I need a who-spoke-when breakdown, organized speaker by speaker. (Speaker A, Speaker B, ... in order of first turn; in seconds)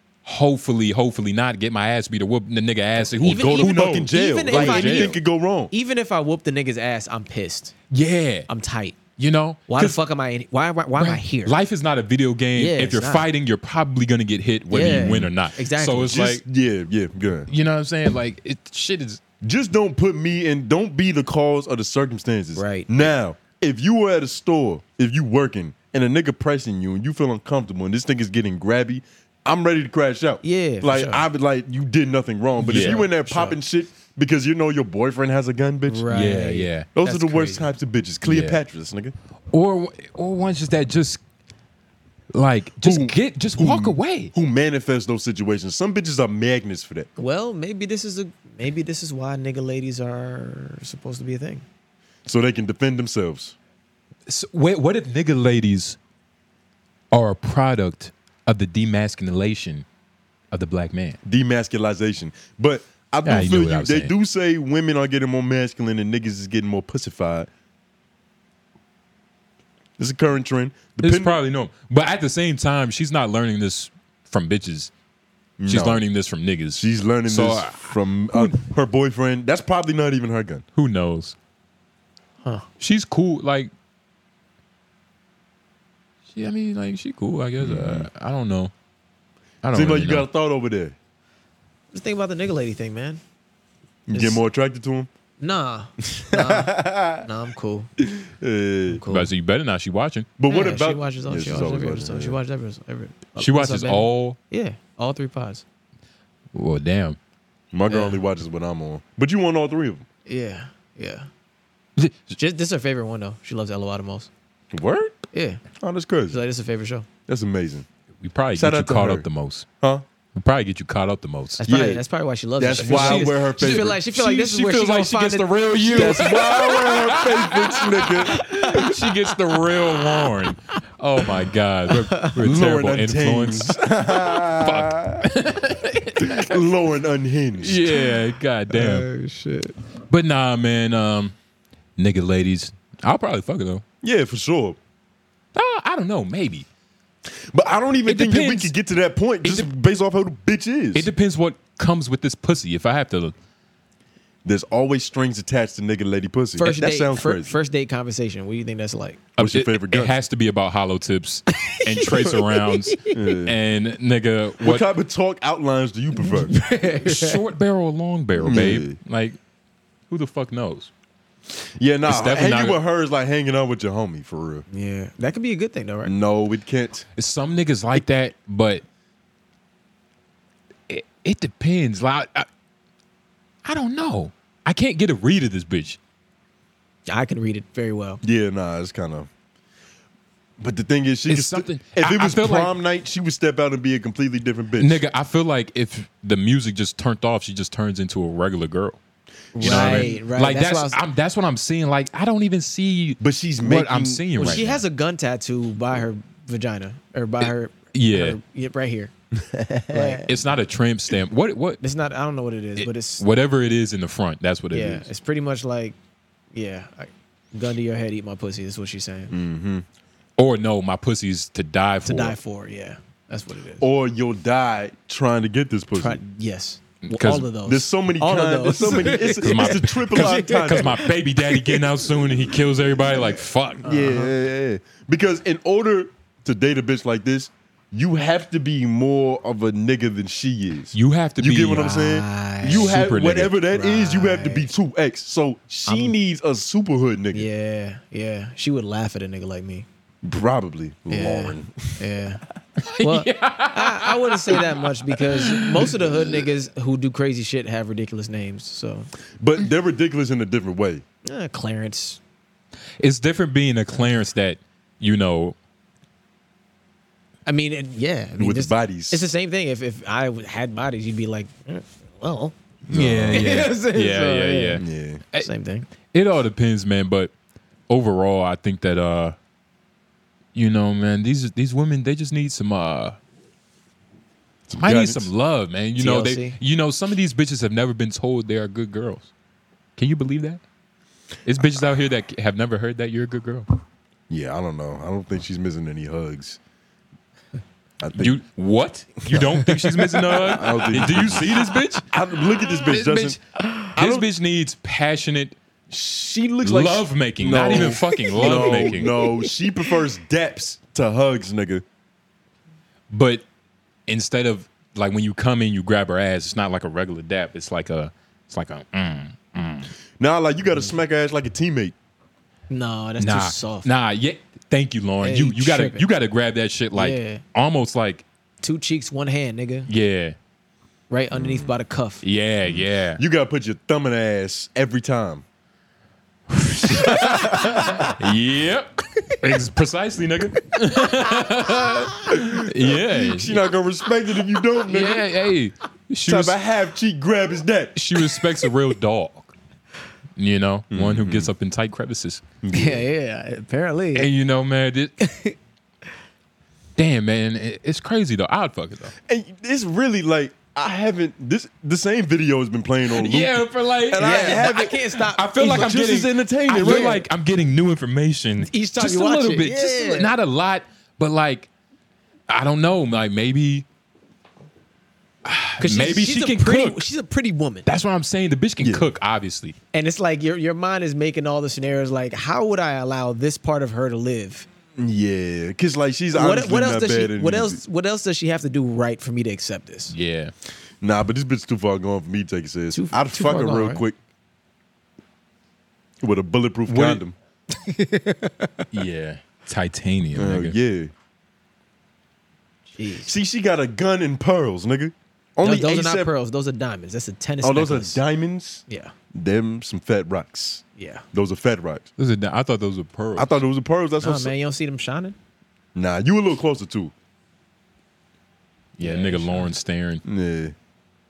Speaker A: 0.2-5.1, 7.9-8.5, 9.2-10.0, 10.9-16.4, 17.5-19.2, 32.6-33.0, 36.1-36.9, 38.2-38.6, 39.5-41.2, 42.3-44.3, 54.3-56.0, 57.1-59.9, 60.5-61.2, 63.2-64.1, 71.0-74.9, 75.7-78.6, 80.7-81.3, 82.8-83.7, 86.3-88.7, 89.6-90.3, 99.1-100.3, 103.4-104.4, 106.5-107.2, 118.2-119.7, 120.3-121.6, 122.7-136.5, 137.6-139.1, 140.1-141.3, 142.0-143.8, 145.5-146.7, 148.1-148.7, 149.4-149.7, 150.9-153.3, 159.4-164.9, 166.8-169.4, 170.1-170.9, 172.1-172.8, 177.2-178.8, 180.9-182.5, 183.6-186.0, 191.3-192.7, 194.8-199.0, 199.6-204.8, 207.4-208.4, 210.3-211.8, 212.8-215.1, 220.4-222.4, 227.1-227.5, 229.4-233.8, 240.9-243.6, 252.8-256.2, 263.0-265.6, 272.9-277.3, 277.9-279.4, 280.5-283.2, 284.8-289.3, 289.9-290.6, 291.4-293.7, 298.1-302.1, 302.7-305.6, 306.6-309.2, 313.1-313.4, 314.1-319.9, 323.2-328.2, 329.9-330.4, 332.2-333.2, 336.5-343.6, 344.9-346.6, 347.9-349.5, 350.4-352.4, 354.1-355.1, 357.0-359.1, 363.1-371.7, 372.5-373.9, 375.4-377.1, 377.9-379.8, 390.1-390.5, 396.9-397.2, 398.9-400.8, 412.2-413.5, 418.9-420.2
Speaker B: 3.2-7.8, 8.5-9.0, 9.7-11.6, 12.6-13.3, 14.7-16.2, 22.6-22.9, 30.4-31.2, 32.6-33.6, 35.9-37.7, 47.2-51.6, 91.9-93.2, 94.1-94.4, 95.4-97.9, 98.9-99.3, 100.5-105.6, 107.9-108.2, 110.3-111.3, 112.3-114.3, 115.3-115.6, 116.3-117.1, 121.6-126.5, 128.3-129.2, 129.9-130.3, 131.9-132.4, 137.8-138.1, 138.7-139.8, 156.6-159.3, 161.7-163.1, 166.2-167.4, 174.7-176.1, 187.1-188.2, 199.5-201.0, 204.3-209.1, 209.9-210.3, 211.8-213.3, 214.7-215.9, 216.5-219.3, 222.1-223.8, 225.9-231.8, 233.8-234.3, 241.8-243.1, 243.6-244.7, 245.8-246.1, 247.3-249.8, 251.1-252.4, 253.0-259.1, 261.2-262.2, 267.4-272.6, 273.3-274.9, 275.4-275.9, 286.0-286.6, 307.7-309.5, 322.7-323.9, 325.2-326.1, 326.9-327.4, 328.6-329.9, 331.1-332.2, 352.7-354.3, 355.2-355.6, 364.2-365.5, 366.8-367.2, 368.7-370.3, 375.8-377.9, 379.9-384.7, 386.3-390.1, 392.9-394.0, 397.7-398.7, 402.9-403.4, 405.6-408.2, 408.9-409.1, 411.0-411.2, 414.2-415.4, 419.0-419.7
Speaker C: 3.2-5.7, 16.1-17.5, 19.4-36.1, 36.9-39.1, 42.8-47.1, 52.3-53.5, 61.2-67.5, 70.0-71.4, 75.6-76.0, 76.7-80.6, 87.6-88.1, 89.7-90.9, 94.1-95.1, 96.0-97.3, 98.0-99.0, 100.4-102.4, 107.7-110.0, 114.7-115.1, 115.7-116.4, 117.3-117.8, 118.5-119.3, 121.6-122.0, 122.6-124.1, 125.9-128.5, 132.4-135.2, 136.2-137.8, 144.0-144.8, 147.5-151.1, 154.4-157.6, 159.4-160.1, 163.1-163.6, 164.6-166.5, 168.4-169.0, 171.8-174.6, 176.1-177.1, 188.2-189.3, 190.6-195.0, 199.5-200.2, 203.2-204.6, 209.3-210.3, 219.3-219.8, 223.8-226.2, 227.6-231.0, 233.8-247.5, 250.2-252.0, 259.4-261.0, 268.4-269.2, 272.9-273.6, 274.8-275.2, 284.7-285.3, 294.3-296.6, 298.0-298.4, 299.3-299.8, 300.3-303.4, 303.9-304.3, 305.9-311.9, 320.2-321.9, 331.4-331.7, 332.7-335.4, 342.8-345.2, 346.3-348.0, 350.9-351.5, 352.6-353.0, 359.3-367.2, 378.8-379.1, 385.0-387.8, 391.0-394.1, 396.2-397.4, 400.4-401.1, 403.2-406.3, 407.6-412.1, 413.4-414.5, 415.9-417.1, 420.2-420.7